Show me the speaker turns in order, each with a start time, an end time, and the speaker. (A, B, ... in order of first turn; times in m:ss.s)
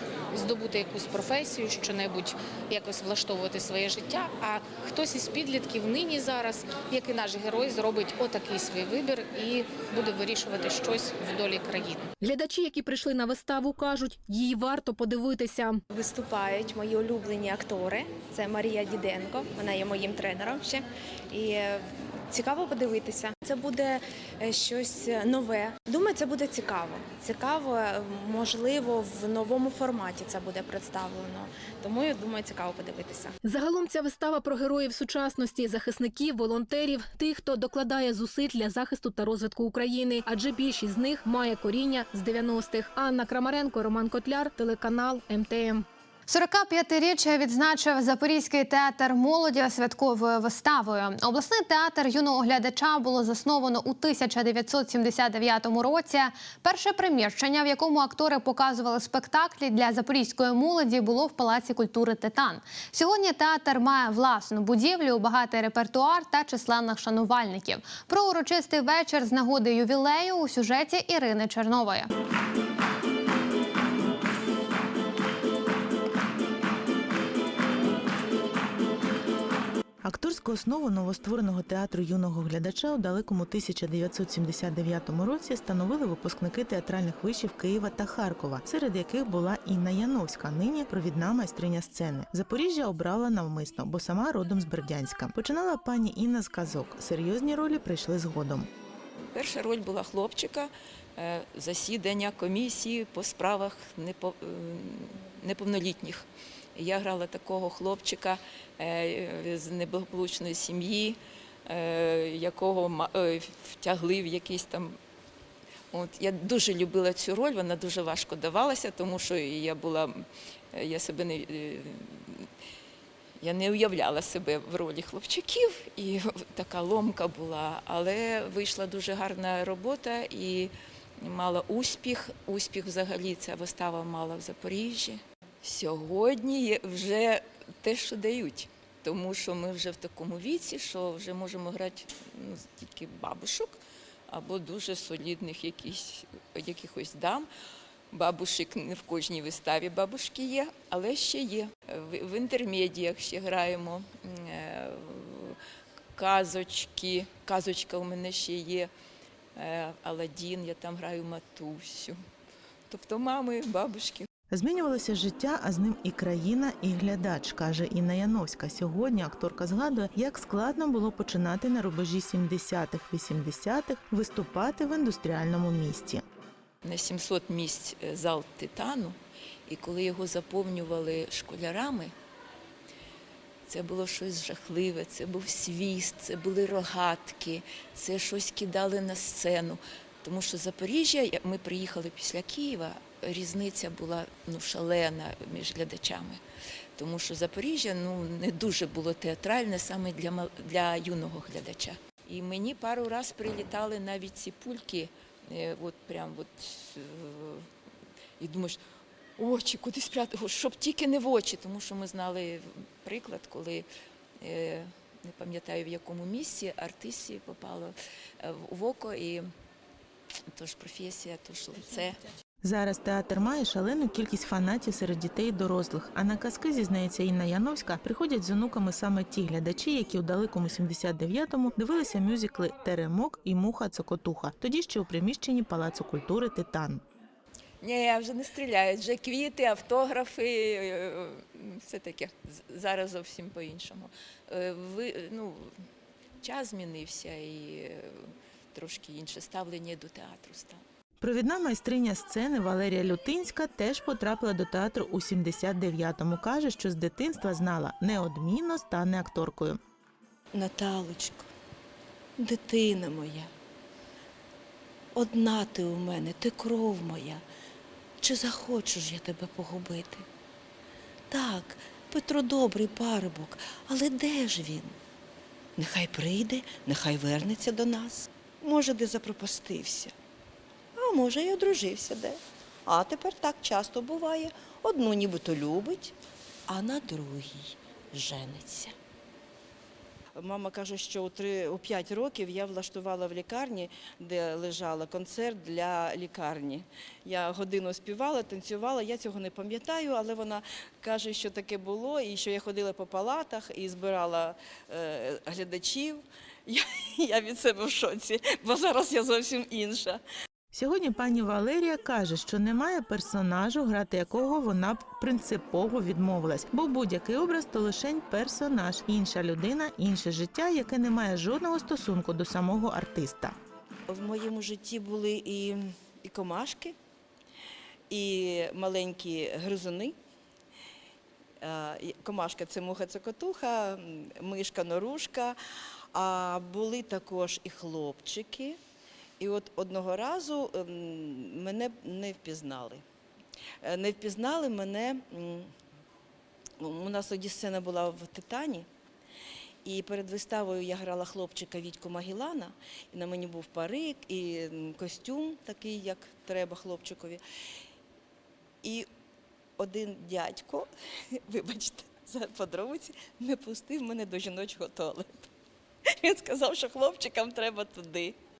0:00.3-0:12.1 A
0:12.2-0:15.8 B
0:15.9-0:33.3 C
0:33.4-0:45.8 B
0:46.3-1:12.1 D
1:20.0-1:38.7 E
1:39.3-1:55.0 F
1:55.9-2:02.5 F
2:03.4-2:23.8 F
2:24.3-2:27.5 F
2:28.1-2:35.6 F
2:36.1-2:38.9 F
2:39.6-2:42.2 F
2:42.9-2:44.3 F
2:44.5-2:56.2 E
2:56.8-3:02.1 F
3:03.7-3:16.4 F
3:17.0-3:27.7 F
3:28.4-3:28.8 F
3:29.4-3:33.8 F
3:34.4-3:39.5 F
3:40.5-3:42.2 F
3:42.6-3:57.0 E
3:57.8-4:05.8 F
4:06.4-4:10.8 F
4:11.2-4:19.8 E
4:20.5-4:21.5 G
4:22.4-4:23.5 G
4:25.1-4:27.4 G
4:28.2-4:30.2 G
4:31.3-4:35.0 G
4:35.8-4:40.1 G
4:41.0-4:46.1 G
4:46.7-4:48.9 G
4:50.4-5:10.2 G
5:10.7-5:23.5 E
5:24.1-5:26.9 G
5:28.1-5:30.2 G
5:31.6-5:35.6 G
5:36.1-5:38.8 G
5:39.4-5:43.0 G
5:43.8-5:45.7 G
5:46.8-5:48.9 G
5:49.8-5:57.4 G
5:59.8-6:05.5 G
6:06.1-6:08.4 G